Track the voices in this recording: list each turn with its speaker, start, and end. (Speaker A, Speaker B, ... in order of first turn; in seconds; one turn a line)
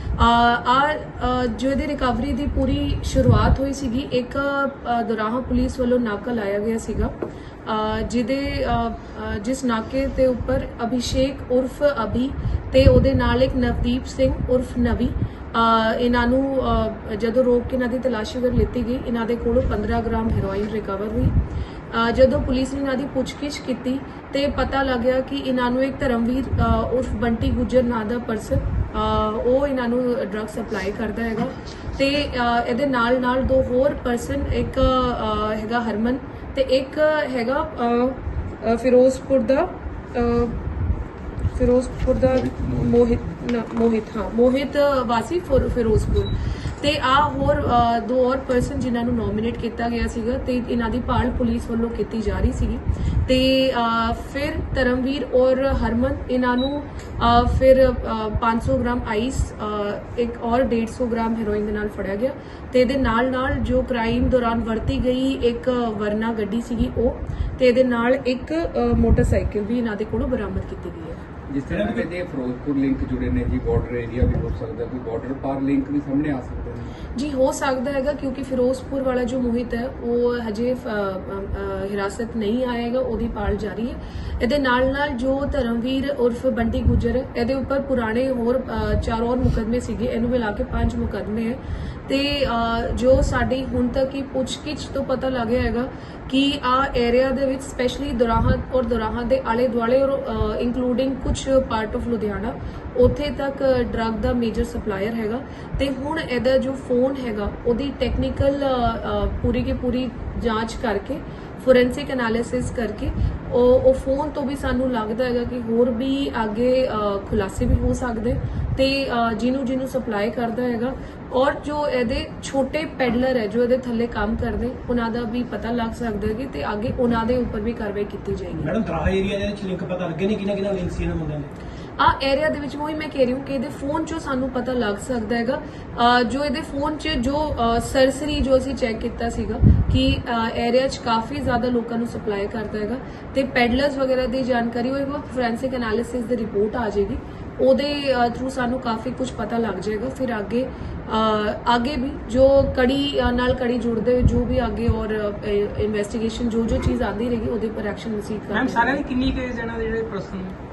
Speaker A: 0.2-21.4
Speaker A: 21.9-40.6
Speaker A: 41.5-71.2
Speaker B: 42.3-42.9
Speaker B: 71.5-76.9
Speaker C: 71.7-72.0
Speaker A: 77.1-128.7
Speaker C: 128.5-131.5
Speaker A: 132.0-159.0
Speaker D: 158.5-160.5